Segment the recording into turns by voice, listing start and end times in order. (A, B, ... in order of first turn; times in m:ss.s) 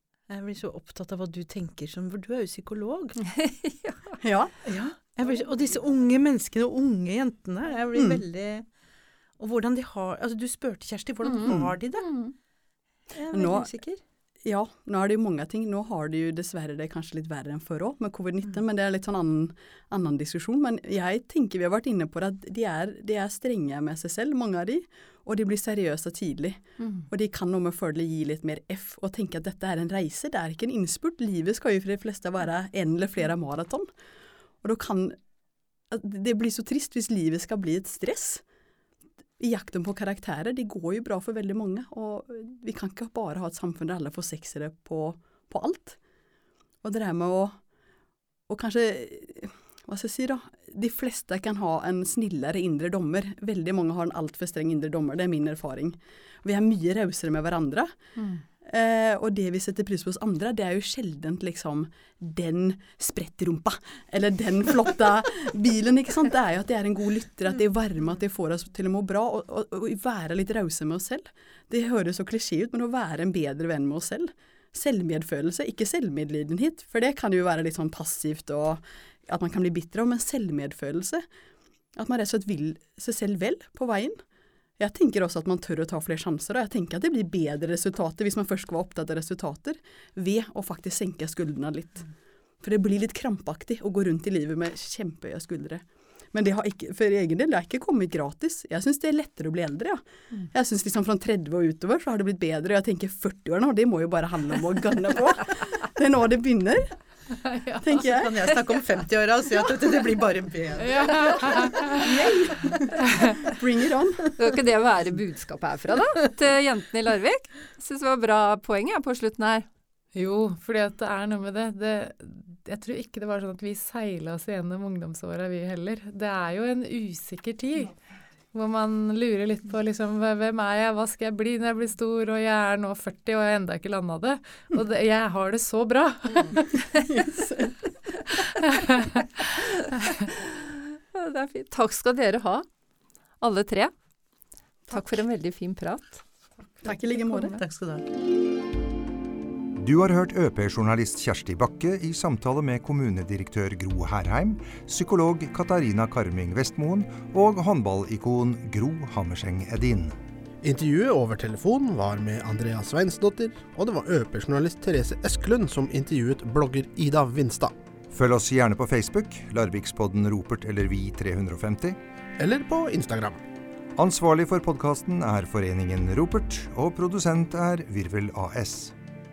0:00.3-0:03.2 A
0:03.4-0:04.1 B
0:04.2-0:04.6 C
0:04.6-0:08.7 A
0:07.9-0:08.2 C
0:09.4-0:12.2 A
0:11.2-0:12.3 B
0:11.4-0:11.7 C
0:13.1-0:14.0 A
0:13.3-0:13.7 C
0:14.4-0:33.9 C
0:26.8-0:27.1 B
0:34.6-0:35.2 C
0:35.9-0:38.4 C
0:39.4-0:46.0 C
0:46.8-0:47.6 C
0:48.5-0:58.0 C
0:58.2-0:58.4 B
0:58.6-1:21.3 C
1:21.9-1:24.2 C
1:24.8-1:46.9 C
1:47.4-1:47.8 D
1:47.8-1:48.5 C
1:48.0-1:51.8 A
1:50.8-1:52.1 D
1:52.0-1:54.3 C
1:53.1-1:53.3 D
1:54.4-1:59.7 B
2:00.1-2:08.0 D
2:08.5-2:16.8 D
2:16.5-2:17.7 C
2:16.5-2:17.0 B
2:18.6-2:19.2 D
2:21.1-2:22.7 B
2:23.4-2:23.9 B
2:24.9-2:26.2 B
2:26.7-2:28.0 A
2:26.8-2:27.6 C
2:29.8-2:40.2 E
2:40.6-2:47.8 F
2:48.1-2:52.0 E
2:52.4-2:53.4 F
2:54.0-2:58.9 E